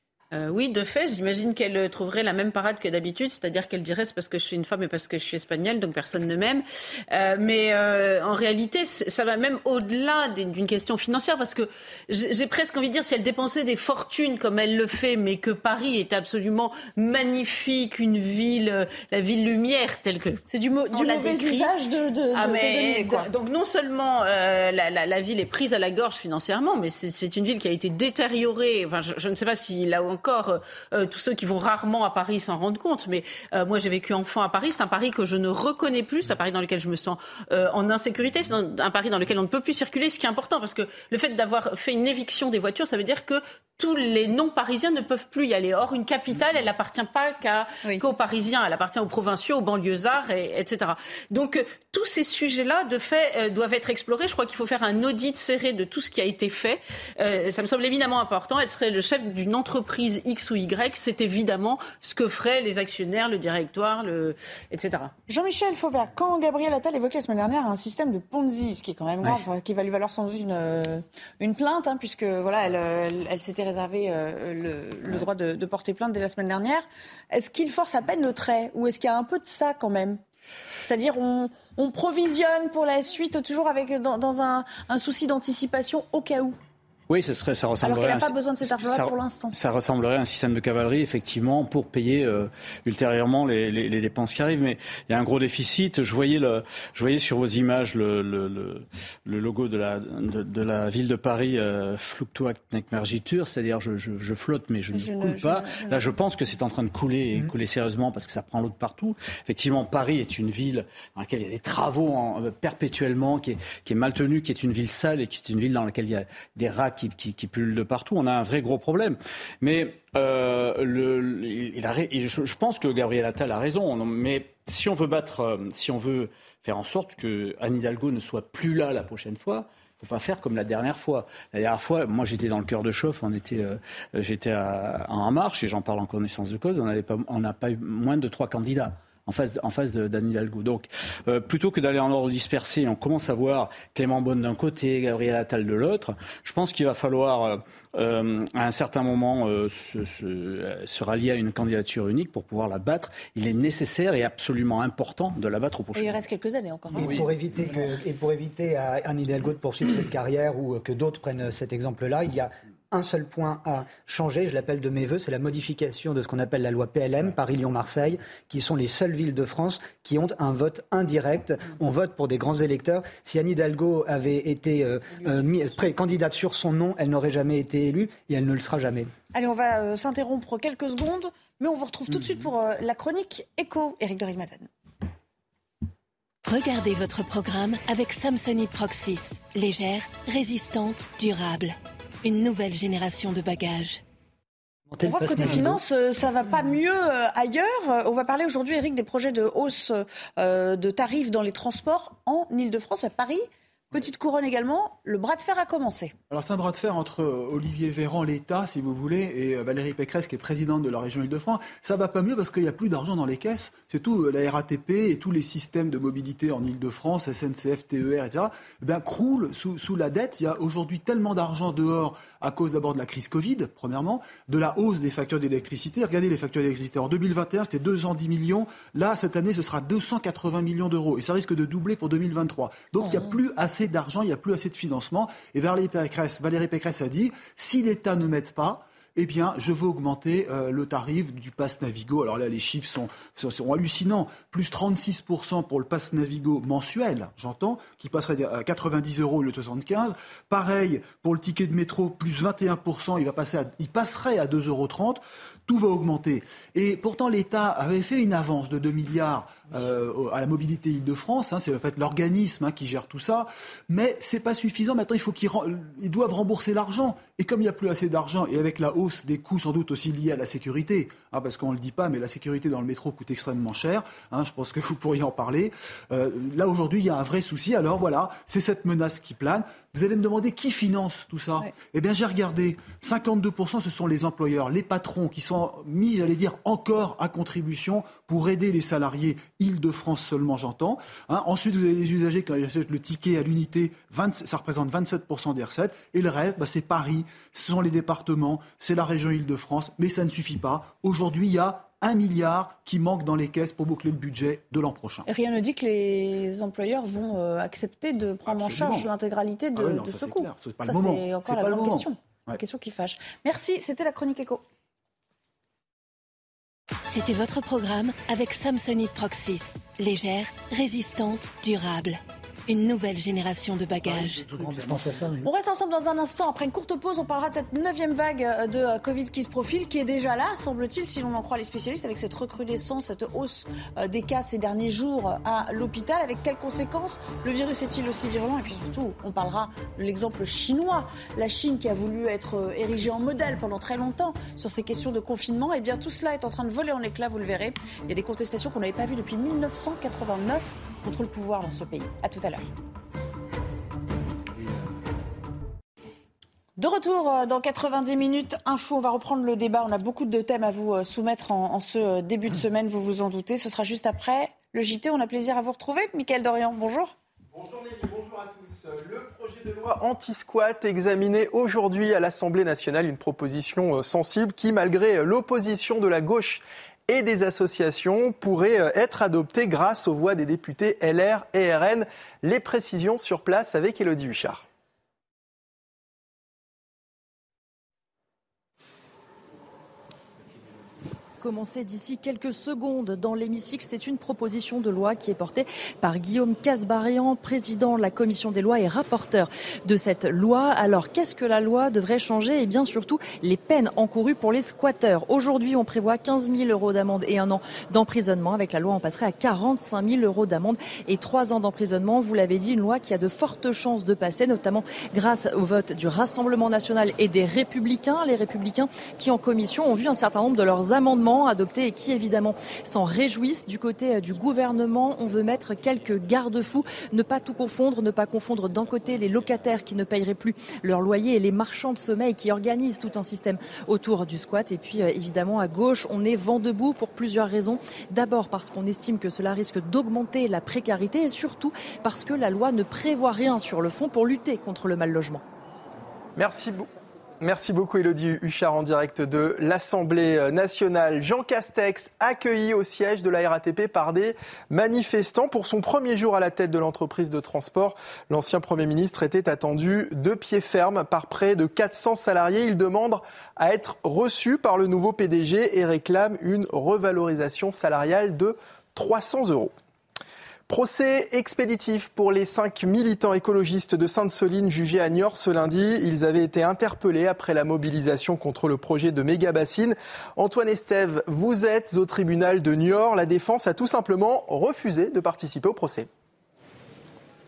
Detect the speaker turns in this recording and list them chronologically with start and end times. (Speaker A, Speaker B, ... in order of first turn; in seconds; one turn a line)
Speaker A: 0.3-20.4
Speaker B: 20.5-23.3
Speaker A: 20.9-21.7
Speaker A: 22.3-65.1
Speaker B: 65.3-80.2
Speaker B: 80.8-86.5
Speaker C: 87.1-156.2
Speaker B: 87.8-89.5
Speaker B: 104.9-106.2
Speaker B: 155.9-157.2
Speaker D: 156.9-179.1
Speaker B: 179.3-184.7
Speaker E: 186.4-194.0
Speaker D: 194.9-195.8
Speaker B: 195.0-206.1
Speaker F: 206.3-305.3
Speaker B: 305.2-314.6
Speaker F: 308.4-309.1
Speaker F: 309.7-312.6
Speaker E: 317.1-324.5
Speaker F: 324.1-324.7
Speaker D: 324.2-325.5
Speaker B: 325.4-352.7
Speaker B: 356.8-367.1
Speaker G: 367.5-384.6
Speaker H: 391.4-445.4
Speaker G: 446.4-446.9
Speaker G: 447.4-469.7
Speaker G: 470.7-486.1